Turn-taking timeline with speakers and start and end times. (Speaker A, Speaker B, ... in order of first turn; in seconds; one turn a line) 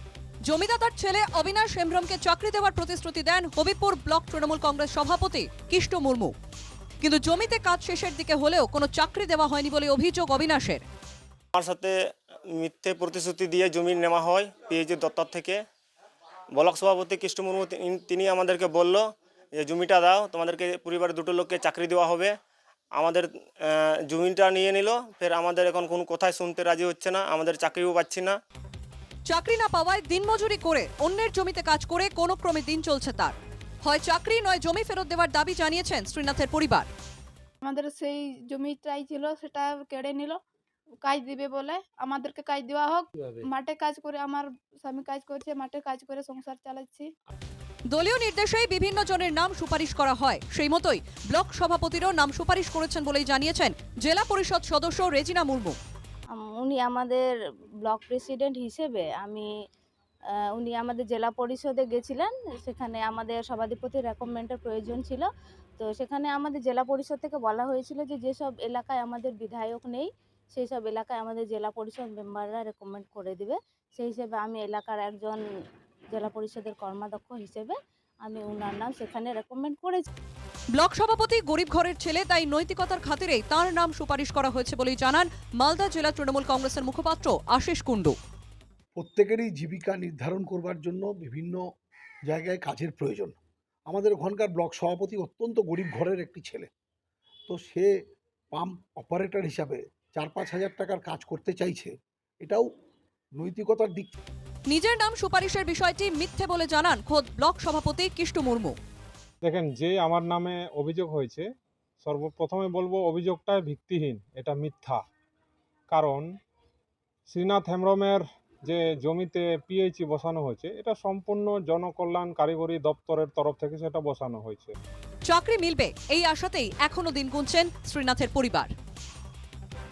Speaker A: 0.5-6.3
Speaker A: 7.0-10.8
Speaker B: 11.5-12.0
Speaker B: 12.5-15.6
Speaker B: 16.6-22.3
Speaker B: 23.0-28.4
Speaker A: 29.3-36.9
Speaker C: 37.6-40.4
Speaker C: 41.0-47.1
Speaker A: 47.9-55.8
Speaker D: 56.4-57.2
Speaker D: 57.8-59.5
Speaker D: 60.5-65.3
Speaker D: 65.8-75.4
Speaker D: 76.1-80.0
Speaker A: 80.7-88.2
Speaker E: 89.0-91.6
Speaker E: 92.3-96.7
Speaker E: 97.5-97.9
Speaker E: 98.5-102.7
Speaker E: 103.4-104.1
Speaker A: 104.7-108.8
Speaker F: 109.4-111.5
Speaker F: 112.0-115.0
Speaker F: 115.9-116.3
Speaker F: 117.3-124.7
Speaker A: 125.3-128.7